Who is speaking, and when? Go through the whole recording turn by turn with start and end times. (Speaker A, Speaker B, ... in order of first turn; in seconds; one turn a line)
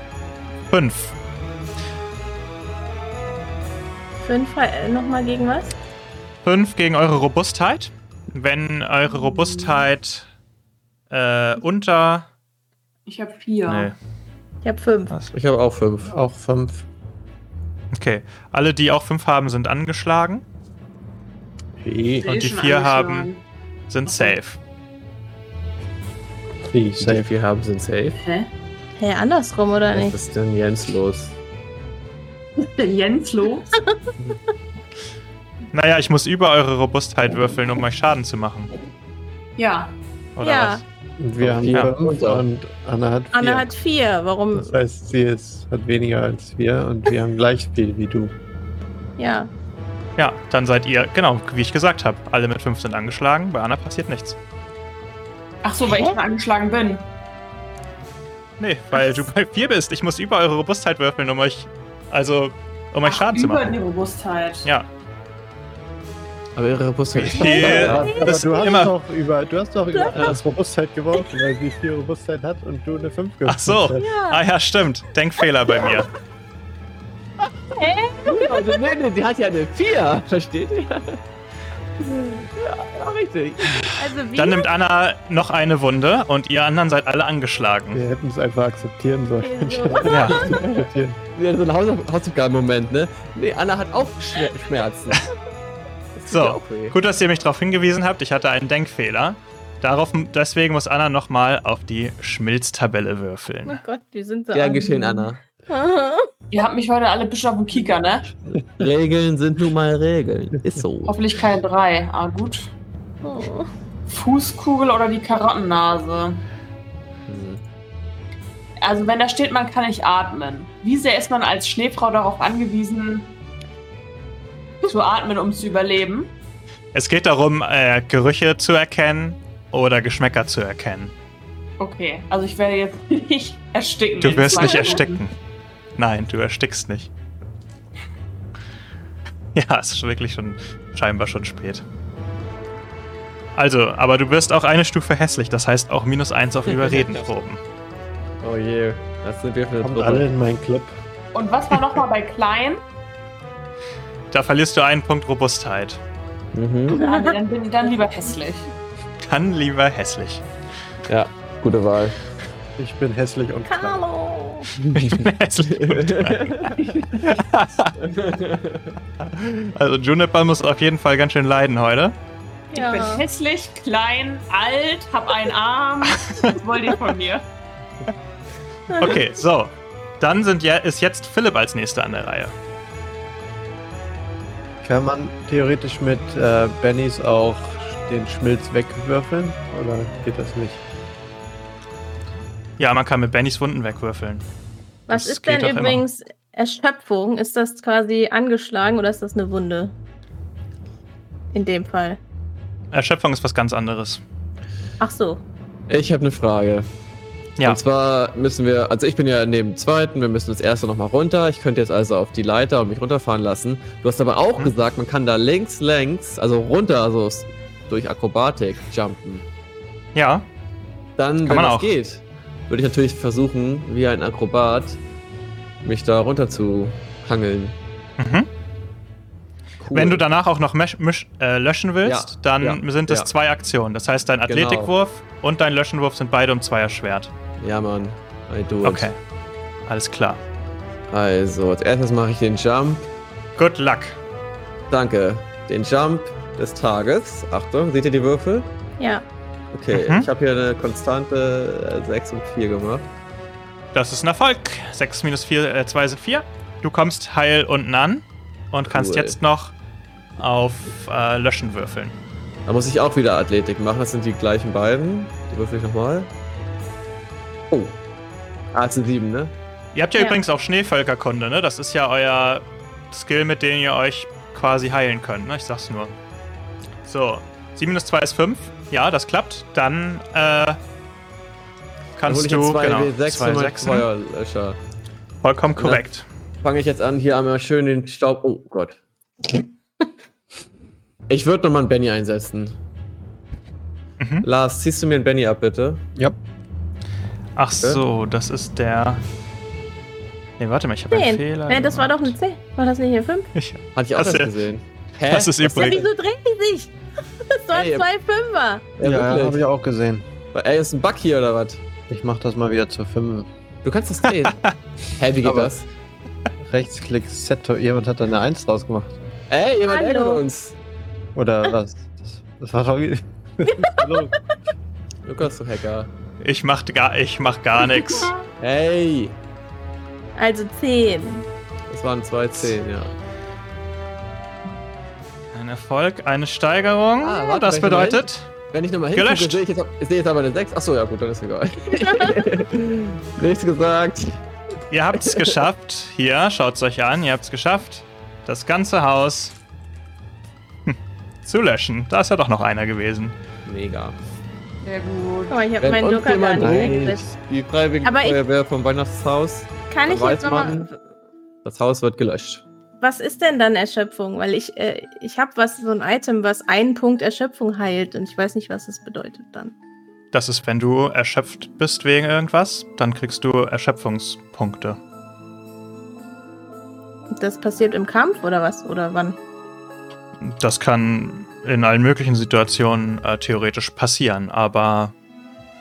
Speaker A: 0.7-1.1
Speaker B: 4.2-5.8
Speaker A: 6.4-10.3
Speaker C: 9.6-9.8
Speaker A: 11.1-12.3
Speaker C: 13.1-13.9
Speaker A: 13.7-13.9
Speaker B: 14.6-15.1
Speaker D: 15.3-16.1
Speaker E: 16.1-16.8
Speaker A: 17.9-20.4
Speaker E: 21.8-22.3
Speaker C: 22.2-23.4
Speaker A: 22.2-23.3
Speaker A: 23.9-24.6
Speaker C: 24.1-24.4
Speaker E: 26.7-27.3
Speaker D: 27.0-28.2
Speaker C: 28.1-28.5
Speaker B: 29.0-30.1
Speaker D: 29.9-31.3
Speaker C: 32.6-33.7
Speaker A: 35.7-38.7
Speaker C: 39.6-39.9
Speaker A: 40.4-40.8
Speaker B: 40.4-40.8
Speaker E: 41.2-43.7
Speaker D: 41.4-42.4
Speaker B: 43.3-44.8
Speaker E: 44.5-48.3
Speaker B: 49.2-49.5
Speaker A: 50.2-54.4
Speaker C: 55.6-57.0
Speaker A: 58.6-63.8
Speaker C: 63.0-64.7
Speaker D: 66.5-68.1
Speaker A: 67.1-68.9
Speaker B: 67.4-68.8
Speaker E: 67.5-74.0
Speaker D: 70.1-70.4
Speaker A: 73.4-76.1
Speaker B: 74.0-74.4
Speaker B: 77.8-78.8
Speaker D: 78.2-81.2
Speaker D: 82.0-83.9
Speaker A: 83.8-88.0
Speaker B: 84.0-84.7
Speaker E: 87.9-91.2
Speaker B: 89.4-90.6
Speaker A: 90.1-90.5
Speaker D: 90.4-95.2
Speaker D: 96.2-97.0
Speaker A: 96.3-103.8
Speaker B: 103.7-106.3
Speaker D: 104.5-105.4
Speaker C: 106.5-108.3
Speaker D: 108.8-111.2
Speaker C: 111.0-112.7
Speaker B: 113.2-113.7
Speaker C: 114.1-116.4
Speaker D: 117.3-117.6
Speaker C: 118.8-123.3
Speaker C: 124.8-126.3
Speaker A: 126.9-131.1
Speaker C: 131.8-135.2
Speaker A: 134.2-135.3
Speaker A: 135.9-137.1
Speaker A: 139.5-141.8
Speaker A: 143.5-147.6
Speaker D: 146.7-147.4
Speaker D: 148.4-150.3
Speaker E: 149.8-151.0
Speaker C: 151.3-152.8
Speaker A: 154.3-156.0
Speaker D: 156.5-157.0
Speaker B: 156.9-157.3
Speaker C: 156.9-158.7
Speaker A: 159.2-160.4
Speaker D: 161.1-162.2
Speaker E: 162.8-164.0
Speaker B: 163.7-164.7
Speaker A: 164.9-167.9
Speaker D: 165.7-166.8
Speaker D: 168.0-168.9
Speaker A: 169.7-172.2
Speaker C: 172.7-177.4
Speaker B: 172.7-173.2
Speaker B: 178.9-179.2
Speaker A: 179.0-182.5
Speaker E: 184.8-190.8
Speaker A: 192.8-194.4
Speaker B: 195.1-199.9
Speaker A: 195.1-196.0
Speaker B: 201.5-202.2
Speaker A: 202.9-204.2
Speaker B: 205.0-205.4
Speaker D: 205.9-206.9
Speaker D: 207.6-219.4
Speaker A: 220.1-220.5
Speaker D: 221.2-225.0
Speaker A: 221.4-221.9
Speaker D: 225.8-227.8
Speaker A: 228.2-228.5
Speaker D: 229.8-230.2
Speaker A: 229.9-237.3
Speaker D: 232.0-233.3
Speaker D: 234.5-234.9
Speaker D: 237.6-239.1
Speaker A: 238.8-239.2
Speaker A: 239.8-240.4
Speaker D: 241.1-243.1
Speaker A: 243.6-244.2
Speaker D: 244.9-248.7
Speaker B: 249.0-249.2
Speaker D: 249.7-253.1
Speaker A: 249.9-250.3
Speaker A: 253.9-259.7
Speaker D: 258.9-259.4
Speaker A: 260.4-262.1
Speaker D: 262.6-266.3
Speaker D: 267.7-268.0
Speaker D: 268.7-269.5
Speaker A: 269.9-276.1
Speaker A: 277.0-280.8
Speaker A: 282.2-284.1
Speaker D: 282.2-284.8
Speaker A: 285.4-286.2
Speaker D: 285.8-286.0
Speaker D: 286.6-289.0
Speaker D: 291.3-292.8
Speaker A: 294.2-294.4
Speaker D: 294.4-296.1
Speaker A: 297.6-299.2
Speaker A: 300.6-302.3
Speaker B: 301.1-303.5
Speaker A: 303.5-304.5
Speaker D: 303.9-306.1
Speaker A: 305.3-306.0
Speaker B: 305.7-306.9
Speaker B: 307.5-308.8
Speaker D: 307.7-308.1
Speaker D: 309.0-309.6
Speaker E: 309.0-310.2
Speaker D: 310.5-311.8
Speaker E: 312.1-313.5
Speaker D: 313.8-315.9
Speaker A: 314.3-314.7
Speaker E: 315.4-315.7
Speaker E: 316.6-319.2
Speaker D: 319.5-320.8
Speaker B: 319.9-320.4
Speaker E: 321.3-324.4
Speaker D: 325.2-326.1
Speaker A: 326.4-328.3
Speaker D: 328.6-329.4
Speaker B: 330.4-331.5
Speaker D: 331.9-333.1
Speaker A: 335.5-338.5
Speaker D: 337.2-344.4
Speaker A: 339.1-339.6
Speaker A: 344.9-349.5
Speaker D: 345.2-345.6
Speaker A: 350.9-353.4
Speaker D: 353.6-354.2
Speaker C: 354.8-355.7
Speaker B: 355.5-357.3
Speaker D: 355.8-360.9
Speaker E: 356.6-356.9
Speaker B: 358.0-358.4
Speaker B: 359.9-360.9
Speaker D: 361.6-362.6
Speaker B: 363.0-369.7
Speaker A: 370.3-375.0
Speaker B: 377.3-379.4
Speaker A: 380.4-385.1